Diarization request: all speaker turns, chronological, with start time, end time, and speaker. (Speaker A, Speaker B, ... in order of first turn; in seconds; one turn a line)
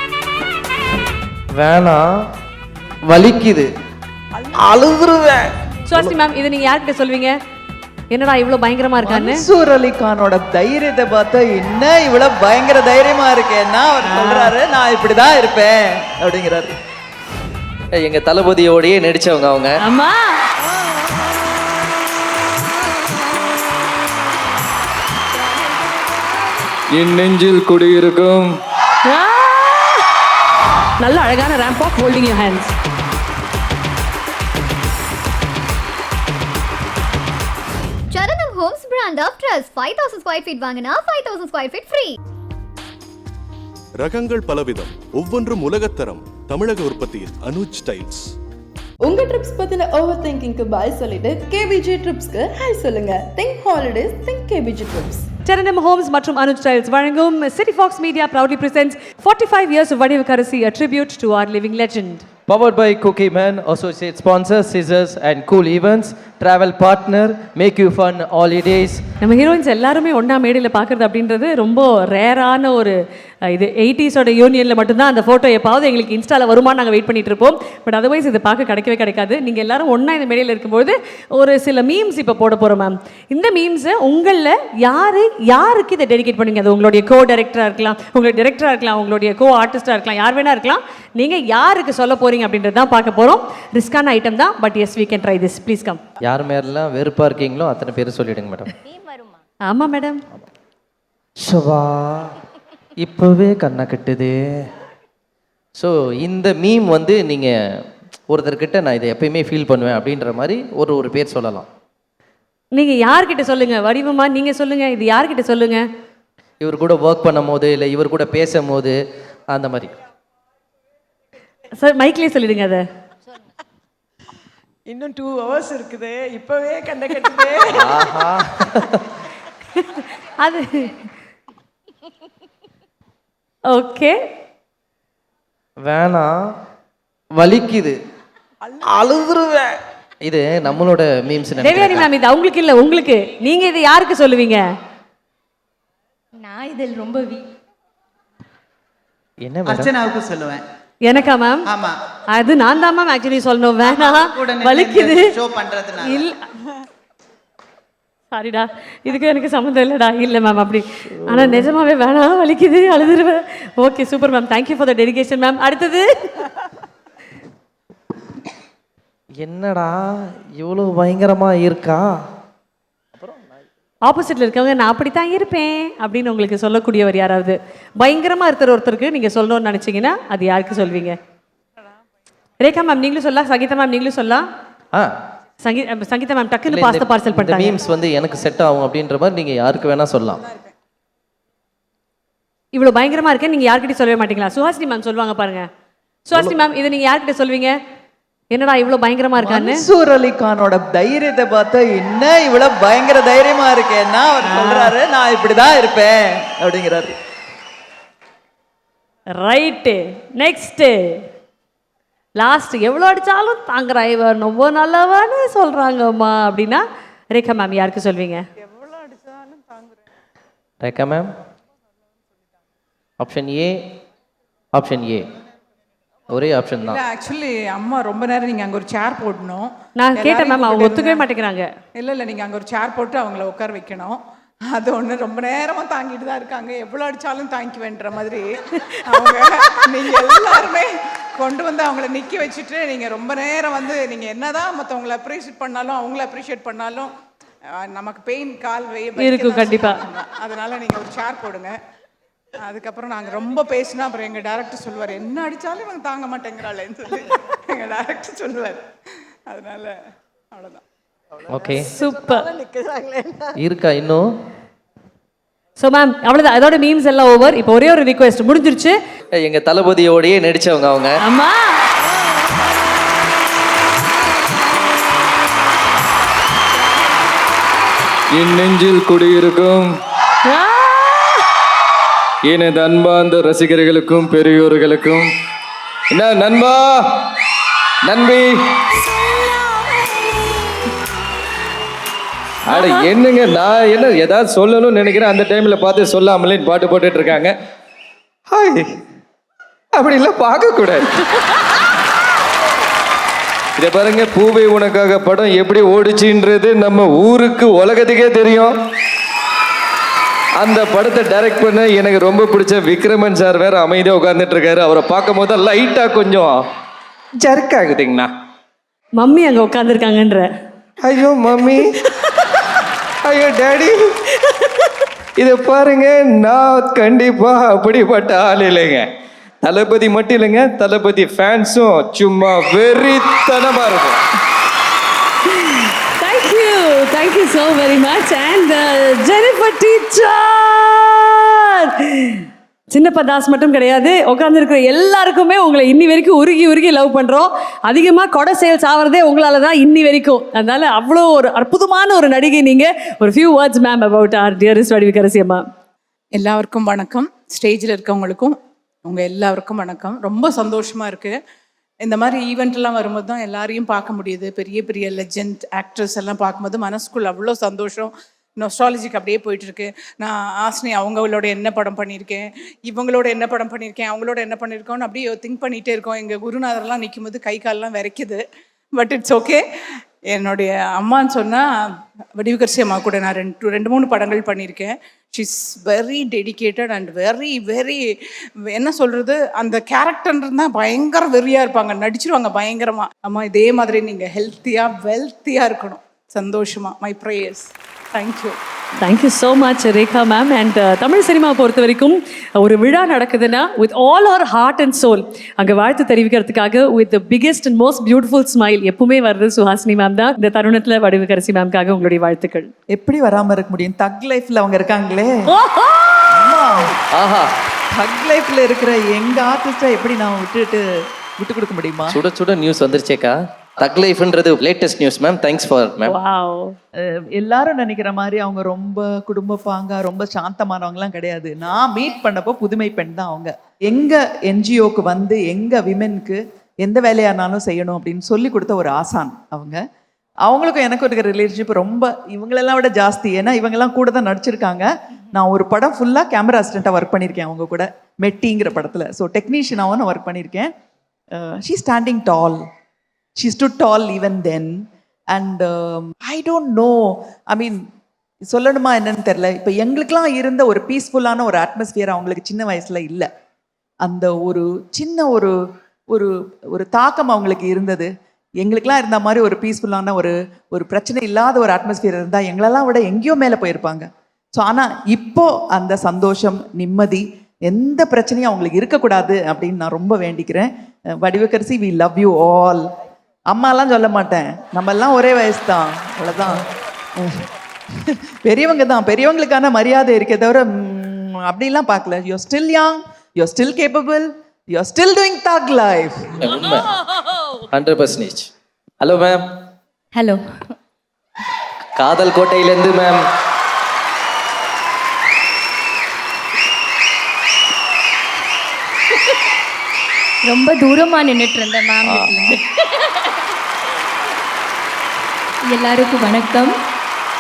Speaker A: 1.5-2.1
Speaker A: 3.1-3.7
Speaker A: 4.6-5.3
Speaker B: 4.7-5.3
Speaker C: 5.9-7.3
Speaker C: 8.1-9.4
Speaker D: 9.0-16.7
Speaker C: 14.1-14.5
Speaker A: 17.9-19.8
Speaker C: 19.8-20.4
Speaker E: 26.9-28.5
Speaker C: 29.0-30.0
Speaker C: 31.0-32.7
Speaker F: 38.1-42.2
Speaker G: 44.0-48.3
Speaker H: 49.0-55.2
Speaker C: 55.5-62.2
Speaker A: 62.5-69.0
Speaker C: 69.2-96.0
Speaker A: 96.2-98.7
Speaker I: 98.9-99.4
Speaker C: 99.7-100.2
Speaker A: 101.4-102.4
Speaker A: 103.0-104.4
Speaker A: 105.8-107.5
Speaker A: 108.3-111.7
Speaker C: 112.7-115.8
Speaker A: 116.6-118.9
Speaker A: 119.5-119.9
Speaker C: 121.8-122.8
Speaker B: 124.9-127.9
Speaker A: 127.7-129.0
Speaker C: 130.2-130.9
Speaker C: 133.7-134.2
Speaker A: 135.8-136.3
Speaker A: 137.4-138.0
Speaker J: 138.7-139.2
Speaker B: 139.0-139.7
Speaker A: 140.2-142.1
Speaker C: 141.6-144.6
Speaker I: 146.4-147.5
Speaker A: 149.4-149.9
Speaker D: 149.7-150.6
Speaker C: 151.0-151.6
Speaker D: 151.7-152.0
Speaker C: 152.3-155.3
Speaker D: 153.8-156.2
Speaker C: 156.1-156.4
Speaker C: 158.3-166.4
Speaker A: 161.2-161.7
Speaker A: 169.4-172.1
Speaker C: 174.1-181.2
Speaker C: 182.6-184.5
Speaker C: 185.6-187.8
Speaker A: 186.7-190.4
Speaker J: 190.4-190.7
Speaker C: 192.7-195.7
Speaker C: 196.3-197.8
Speaker C: 198.5-199.8
Speaker D: 199.4-207.1
Speaker C: 204.4-204.9
Speaker C: 209.4-211.2
Speaker C: 212.4-218.4
Speaker J: 218.9-219.6
Speaker A: 220.8-221.3
Speaker A: 223.2-223.7
Speaker A: 224.7-225.2
Speaker A: 226.3-227.0
Speaker J: 226.8-231.2
Speaker C: 230.0-231.7
Speaker J: 231.9-234.2
Speaker J: 234.7-238.4
Speaker J: 239.1-247.1
Speaker J: 247.8-251.8
Speaker C: 249.2-250.0
Speaker J: 252.6-258.8
Speaker J: 259.5-259.9
Speaker J: 260.5-260.8
Speaker A: 261.5-261.9
Speaker C: 261.8-262.5
Speaker B: 262.7-263.1
Speaker A: 263.6-264.2
Speaker C: 265.8-268.9
Speaker A: 269.3-271.2
Speaker C: 271.2-271.8
Speaker E: 278.3-279.9
Speaker C: 280.4-281.4
Speaker E: 282.4-285.3
Speaker E: 286.1-287.2
Speaker E: 288.1-288.5
Speaker C: 289.1-289.8
Speaker E: 292.7-297.6
Speaker C: 292.7-293.1
Speaker E: 298.5-298.9
Speaker E: 299.9-301.1
Speaker E: 303.8-308.7
Speaker E: 310.6-316.6
Speaker E: 317.4-318.3
Speaker C: 319.2-320.5
Speaker E: 321.0-321.9
Speaker E: 323.2-324.0
Speaker E: 325.4-329.1
Speaker E: 329.6-334.2
Speaker C: 335.6-355.6
Speaker J: 356.3-358.6
Speaker J: 359.1-361.3
Speaker J: 362.0-378.4
Speaker J: 378.9-379.6
Speaker J: 380.3-381.7
Speaker J: 382.4-388.1
Speaker J: 388.7-398.6
Speaker C: 399.0-412.7
Speaker D: 412.9-415.3
Speaker C: 415.5-416.5
Speaker D: 416.3-416.9
Speaker A: 417.1-417.5
Speaker D: 417.9-420.8
Speaker D: 421.4-422.2
Speaker A: 422.1-426.2
Speaker C: 426.0-426.8
Speaker D: 427.0-439.8
Speaker D: 440.4-450.7
Speaker D: 451.4-452.6
Speaker D: 453.4-457.8
Speaker D: 458.5-463.3
Speaker D: 464.0-465.5
Speaker D: 466.1-468.1
Speaker D: 468.6-480.7
Speaker D: 481.2-482.9
Speaker D: 483.5-486.6
Speaker D: 488.1-496.2
Speaker A: 496.4-497.0
Speaker A: 497.7-498.5
Speaker A: 499.0-499.4
Speaker I: 500.1-500.4
Speaker A: 502.0-503.2
Speaker I: 510.5-513.4
Speaker A: 512.0-512.6
Speaker I: 515.7-516.7